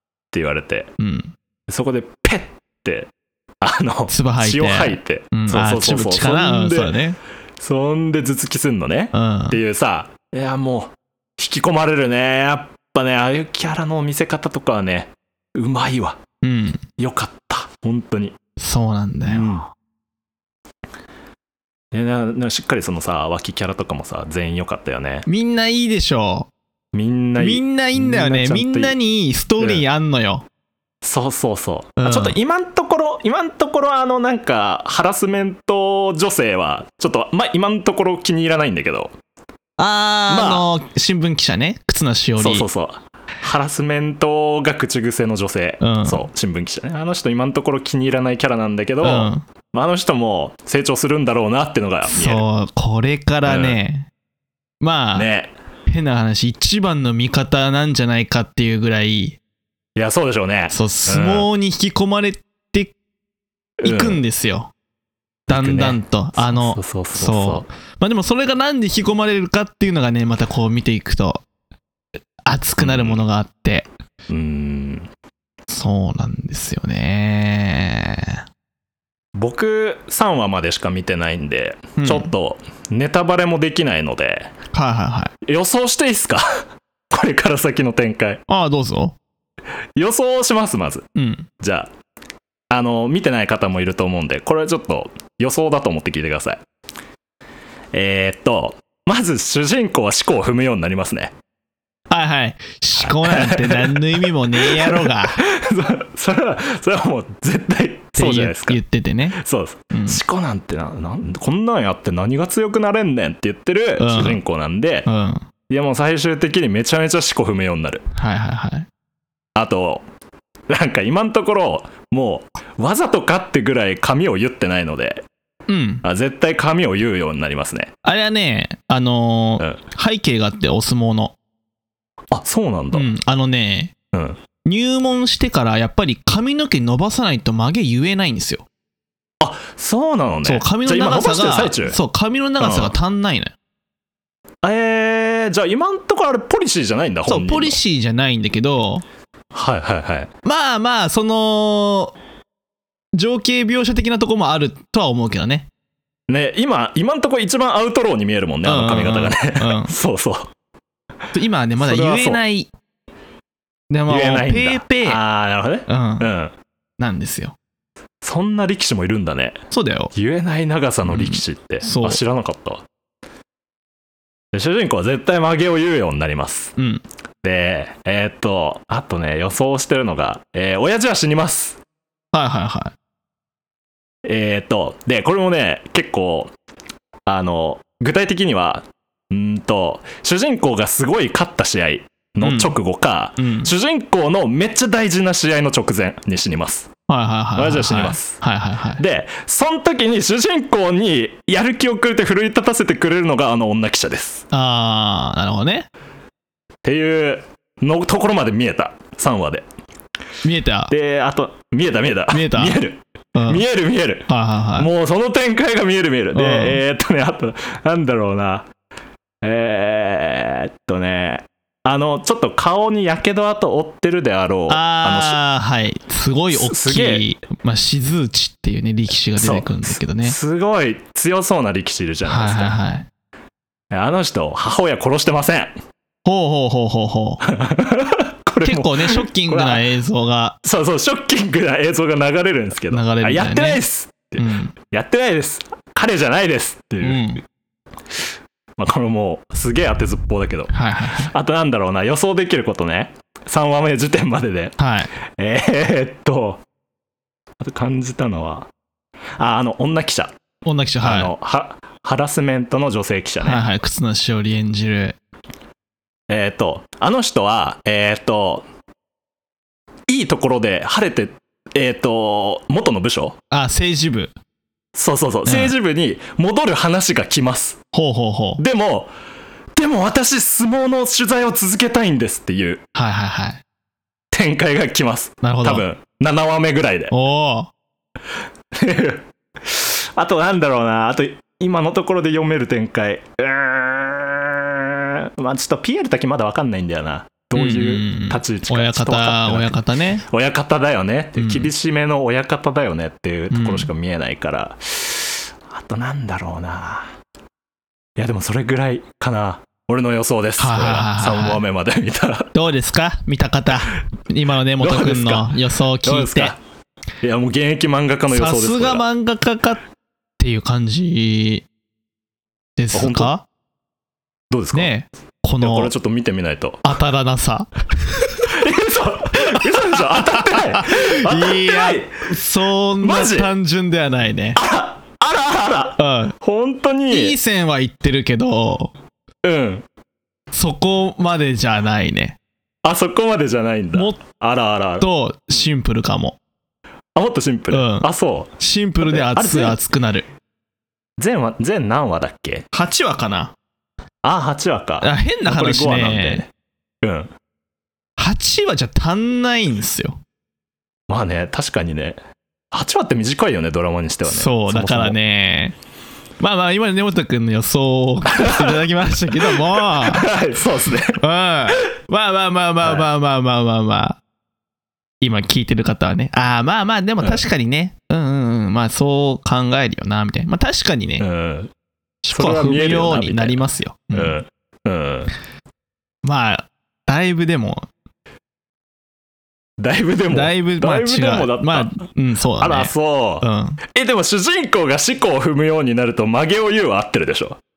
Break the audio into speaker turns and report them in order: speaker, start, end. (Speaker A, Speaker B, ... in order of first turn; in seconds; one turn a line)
Speaker A: 0.3-0.9
Speaker B: 1.0-1.3
Speaker A: 1.7-3.1
Speaker A: 3.6-7.0
Speaker B: 4.1-7.2
Speaker A: 7.6-16.2
Speaker B: 9.1-9.6
Speaker B: 16.4-16.8
Speaker A: 17.0-18.3
Speaker B: 18.6-19.6
Speaker A: 19.3-19.6
Speaker A: 21.9-25.3
Speaker B: 25.2-26.5
Speaker A: 26.9-29.0
Speaker B: 27.4-30.4
Speaker A: 29.6-29.8
Speaker A: 31.0-39.1
Speaker B: 32.0-32.4
Speaker B: 39.8-42.7
Speaker A: 40.3-40.6
Speaker A: 42.4-52.4
Speaker B: 45.8-46.2
Speaker B: 49.0-49.4
Speaker B: 52.1-54.1
Speaker A: 53.5-53.8
Speaker B: 54.8-55.3
Speaker A: 55.1-55.5
Speaker B: 55.9-59.4
Speaker A: 60.0-61.5
Speaker B: 60.7-62.9
Speaker A: 63.8-64.2
Speaker B: 63.8-64.7
Speaker B: 65.5-71.4
Speaker A: 65.5-67.7
Speaker B: 72.5-73.9
Speaker A: 72.8-73.2
Speaker A: 74.3-75.1
Speaker B: 75.7-78.4
Speaker A: 79.3-84.5
Speaker B: 82.0-82.3
Speaker B: 84.7-85.3
Speaker A: 85.4-88.4
Speaker B: 88.5-89.2
Speaker A: 90.0-91.0
Speaker B: 91.1-91.5
Speaker A: 91.6-91.9
Speaker A: 92.7-96.6
Speaker A: 97.9-101.3
Speaker B: 102.1-105.4
Speaker A: 103.0-108.8
Speaker B: 108.2-109.4
Speaker A: 109.3-115.1
Speaker B: 109.9-110.2
Speaker B: 114.0-114.4
Speaker B: 115.0-115.5
Speaker A: 115.7-118.0
Speaker B: 118.1-118.9
Speaker A: 119.5-120.0
Speaker A: 120.7-125.2
Speaker B: 125.7-126.0
Speaker A: 126.0-127.9
Speaker B: 128.0-131.3
Speaker A: 132.3-133.1
Speaker B: 132.9-133.9
Speaker A: 134.1-134.4
Speaker B: 134.6-138.7
Speaker A: 139.4-142.0
Speaker B: 140.4-143.5
Speaker A: 142.6-142.9
Speaker A: 144.6-147.8
Speaker B: 147.2-149.0
Speaker A: 149.5-150.3
Speaker B: 150.4-152.1
Speaker B: 153.1-155.7
Speaker A: 156.3-160.5
Speaker B: 158.6-159.9
Speaker B: 161.3-162.7
Speaker A: 161.8-162.4
Speaker B: 163.9-165.2
Speaker A: 164.1-166.5
Speaker B: 165.9-166.3
Speaker B: 167.0-167.5
Speaker A: 168.2-172.8
Speaker B: 169.7-170.1
Speaker B: 171.1-172.2
Speaker A: 174.5-176.7
Speaker B: 176.8-177.0
Speaker A: 177.4-181.8
Speaker B: 182.3-182.9
Speaker A: 184.2-186.5
Speaker A: 187.3-196.9
Speaker B: 192.4-192.7
Speaker B: 193.4-193.7
Speaker B: 197.1-199.0
Speaker A: 197.5-198.4
Speaker A: 199.0-204.5
Speaker B: 204.5-205.9
Speaker A: 206.8-209.6
Speaker B: 210.4-210.9
Speaker A: 210.9-218.7
Speaker B: 212.3-212.8
Speaker B: 213.3-213.6
Speaker B: 214.3-214.9
Speaker B: 216.3-216.8
Speaker A: 219.4-225.4
Speaker B: 224.7-230.4
Speaker A: 226.5-227.2
Speaker A: 229.4-232.8
Speaker B: 232.2-233.1
Speaker A: 233.9-235.7
Speaker B: 236.2-237.4
Speaker A: 237.4-239.8
Speaker B: 238.6-240.6
Speaker A: 240.6-247.4
Speaker B: 242.9-243.8
Speaker B: 244.4-244.7
Speaker B: 247.0-247.4
Speaker A: 248.8-256.6
Speaker B: 250.7-251.3
Speaker B: 254.8-255.1
Speaker A: 257.6-258.7
Speaker A: 259.4-260.4
Speaker B: 260.6-261.3
Speaker A: 261.0-263.6
Speaker B: 263.4-265.2
Speaker A: 266.3-268.6
Speaker A: 270.1-273.4
Speaker B: 273.5-274.3
Speaker A: 274.9-277.8
Speaker B: 275.4-275.7
Speaker B: 277.9-278.6
Speaker A: 278.6-279.1
Speaker A: 279.8-282.8
Speaker B: 282.9-283.6
Speaker A: 284.3-287.1
Speaker B: 285.4-285.8
Speaker B: 287.1-287.7
Speaker A: 288.7-307.1
Speaker B: 297.5-300.2
Speaker B: 301.4-301.7
Speaker B: 303.5-303.9
Speaker A: 308.2-312.5
Speaker B: 310.6-311.6
Speaker B: 312.5-316.5
Speaker A: 314.8-316.6
Speaker A: 317.2-319.1
Speaker B: 318.3-319.8
Speaker B: 320.4-321.6
Speaker B: 322.8-323.4
Speaker A: 322.9-323.3
Speaker A: 324.5-324.9
Speaker B: 324.7-325.9
Speaker A: 325.6-326.9
Speaker B: 326.8-328.6
Speaker A: 328.5-332.3
Speaker B: 329.4-334.6
Speaker A: 333.0-333.5
Speaker A: 334.6-337.4
Speaker B: 336.0-336.3
Speaker B: 337.1-338.9
Speaker A: 339.4-339.8
Speaker B: 340.5-342.4
Speaker A: 342.8-345.1
Speaker B: 343.9-344.2
Speaker B: 345.0-346.4
Speaker A: 347.1-349.8
Speaker B: 347.7-350.3
Speaker A: 351.2-352.7
Speaker B: 352.7-353.5
Speaker A: 354.2-356.5
Speaker B: 355.0-356.4
Speaker A: 357.0-357.3
Speaker B: 358.2-360.2
Speaker A: 361.1-362.2
Speaker A: 362.7-365.2
Speaker B: 364.2-365.8
Speaker B: 366.4-370.3
Speaker A: 368.2-368.8
Speaker A: 369.4-371.2
Speaker B: 371.2-374.2
Speaker A: 372.8-373.1
Speaker B: 375.2-381.2
Speaker A: 381.2-381.7
Speaker B: 382.2-384.4
Speaker A: 382.3-385.3
Speaker B: 386.2-387.9
Speaker A: 389.8-392.0
Speaker B: 390.3-393.8
Speaker A: 392.6-397.6